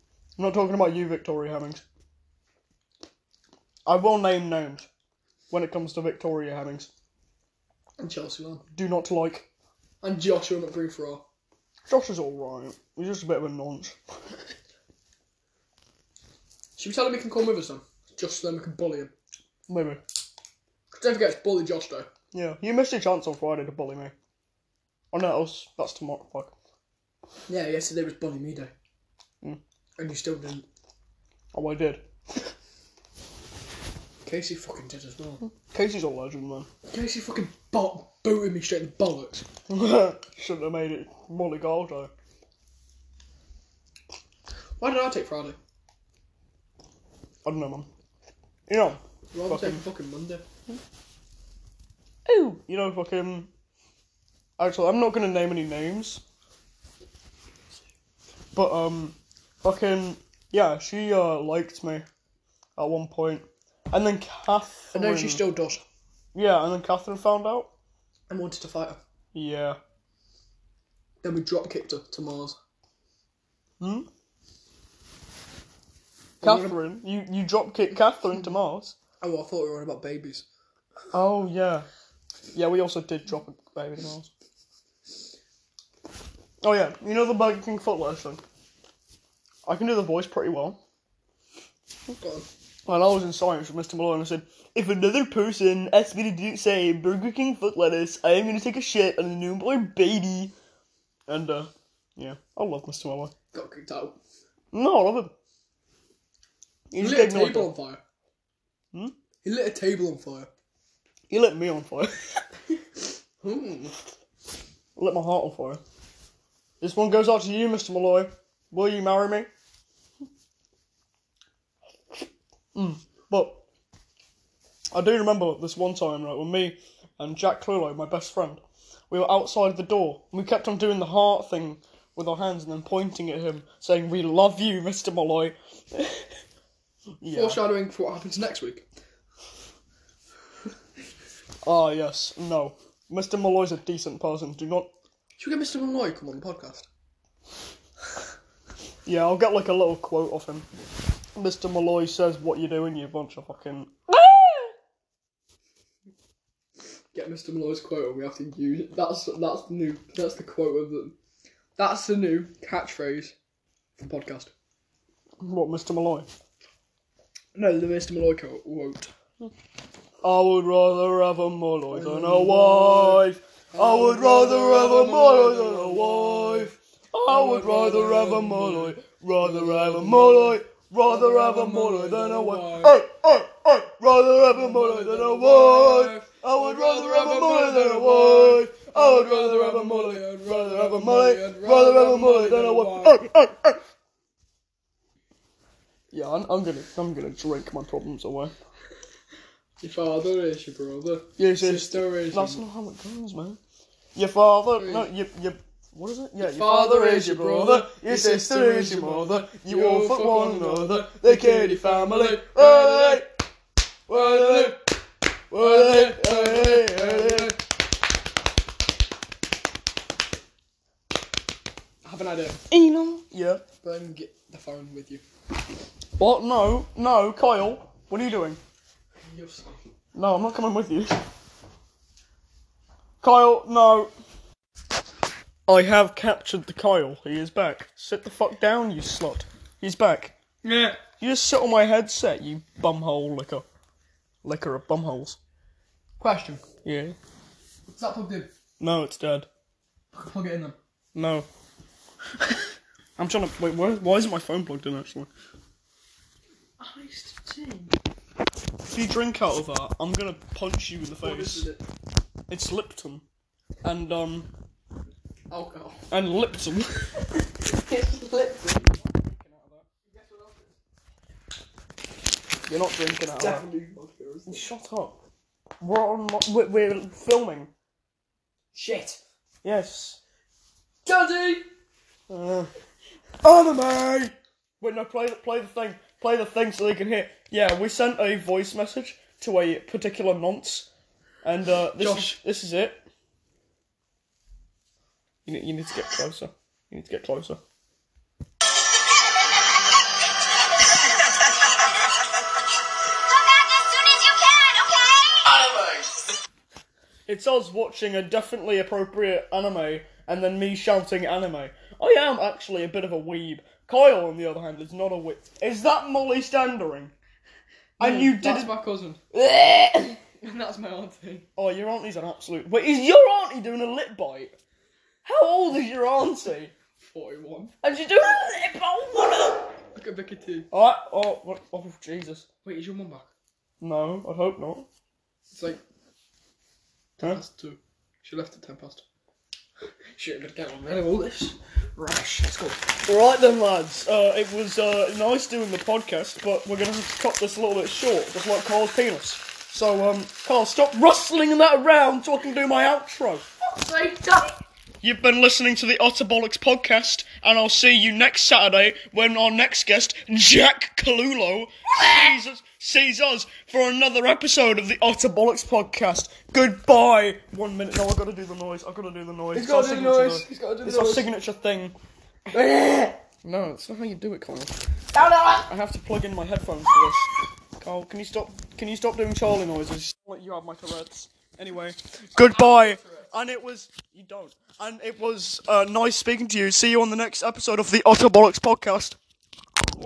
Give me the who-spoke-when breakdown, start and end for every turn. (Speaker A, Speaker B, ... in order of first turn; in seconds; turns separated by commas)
Speaker A: 0.4-1.8, Speaker A: 3.9-4.9, Speaker A: 5.5-6.9, Speaker B: 8.0-8.7, Speaker A: 8.7-9.5, Speaker B: 10.0-11.2, Speaker A: 11.9-14.4, Speaker B: 16.8-19.1, Speaker A: 19.7-20.0, Speaker B: 20.9-22.1, Speaker A: 22.3-24.1, Speaker A: 25.1-26.5, Speaker B: 27.5-28.7, Speaker B: 30.0-30.7, Speaker A: 31.5-32.4, Speaker B: 34.2-35.4, Speaker A: 35.4-36.7, Speaker B: 36.9-39.5, Speaker A: 39.7-42.1, Speaker B: 44.8-45.6, Speaker A: 47.5-47.9, Speaker A: 48.7-49.8, Speaker B: 49.3-50.4, Speaker A: 52.3-53.5, Speaker A: 54.6-56.2, Speaker A: 58.5-62.1, Speaker A: 62.8-65.5, Speaker B: 64.9-65.8, Speaker A: 66.3-67.7, Speaker B: 68.3-69.0, Speaker A: 69.3-69.8, Speaker B: 71.2-72.6, Speaker A: 73.8-74.1, Speaker B: 76.4-76.8, Speaker A: 76.4-79.0, Speaker B: 79.2-80.5, Speaker A: 81.1-81.9, Speaker A: 82.5-84.3, Speaker A: 86.6-88.4, Speaker A: 89.7-90.8, Speaker B: 92.2-92.5, Speaker A: 92.9-100.5, Speaker A: 101.3-103.3, Speaker B: 103.5-104.2, Speaker A: 104.7-105.3, Speaker A: 106.9-107.7, Speaker B: 107.0-108.0, Speaker B: 109.4-110.5, Speaker A: 111.3-112.5, Speaker B: 113.4-113.9, Speaker A: 115.0-115.8, Speaker A: 116.8-119.5, Speaker A: 122.8-123.6, Speaker A: 124.9-136.4, Speaker A: 137.2-137.7, Speaker B: 137.3-138.9, Speaker A: 141.6-144.9, Speaker B: 145.4-146.9, Speaker A: 149.1-150.7, Speaker A: 151.3-154.7, Speaker B: 157.1-161.2, Speaker B: 161.8-163.3, Speaker B: 164.0-164.5, Speaker A: 165.4-166.3, Speaker B: 167.6-169.1, Speaker A: 170.2-193.8, Speaker B: 171.9-176.8, Speaker B: 177.3-183.0, Speaker B: 184.5-193.2, Speaker A: 196.1-198.6, Speaker B: 199.8-202.6, Speaker A: 201.4-203.6, Speaker A: 204.2-213.3, Speaker B: 204.8-205.1, Speaker B: 206.4-213.3, Speaker A: 214.1-214.8, Speaker B: 214.1-214.9, Speaker A: 215.5-217.6, Speaker B: 215.5-217.6, Speaker B: 222.0-222.6, Speaker A: 222.7-223.7, Speaker B: 223.8-225.2, Speaker A: 226.2-228.6, Speaker B: 229.2-229.8, Speaker A: 230.2-231.2, Speaker A: 233.2-234.1, Speaker A: 235.7-240.3, Speaker B: 240.6-241.0, Speaker A: 241.2-243.7, Speaker A: 244.4-245.4, Speaker B: 246.2-246.6, Speaker A: 246.8-247.2, Speaker B: 247.9-248.5, Speaker A: 248.8-249.5, Speaker B: 250.1-250.8, Speaker A: 251.2-251.5, Speaker A: 253.2-255.3, Speaker B: 256.8-258.0, Speaker A: 258.9-261.7, Speaker B: 261.2-261.8, Speaker A: 262.5-263.2, Speaker A: 263.8-264.5, Speaker B: 265.5-266.0, Speaker A: 266.1-267.2, Speaker B: 267.6-269.0, Speaker A: 269.0-269.9, Speaker B: 270.0-270.8, Speaker A: 272.7-273.6, Speaker B: 273.4-274.7, Speaker A: 274.5-275.2, Speaker A: 275.8-277.7, Speaker B: 278.7-279.2, Speaker A: 279.6-280.2, Speaker B: 281.1-281.7, Speaker A: 282.3-282.7, Speaker A: 283.4-290.9, Speaker A: 291.4-293.0, Speaker B: 292.0-292.4, Speaker A: 295.5-297.6, Speaker C: 303.2-306.1, Speaker A: 307.3-317.1, Speaker B: 318.0-319.2, Speaker A: 318.0-318.7, Speaker A: 319.4-320.2, Speaker B: 320.4-321.5, Speaker A: 321.6-324.6, Speaker A: 325.2-326.7, Speaker B: 327.0-327.7, Speaker A: 327.8-329.7, Speaker B: 329.9-330.7, Speaker A: 330.7-332.5, Speaker B: 332.6-333.3, Speaker A: 333.8-334.9, Speaker B: 335.5-335.8, Speaker B: 337.2-339.0, Speaker B: 340.1-342.8, Speaker A: 343.1-353.5, Speaker B: 353.6-354.6, Speaker A: 355.0-372.0, Speaker B: 369.5-371.3, Speaker B: 372.5-373.2, Speaker A: 373.4-374.8, Speaker B: 375.1-375.7, Speaker A: 375.7-389.2, Speaker B: 382.4-383.3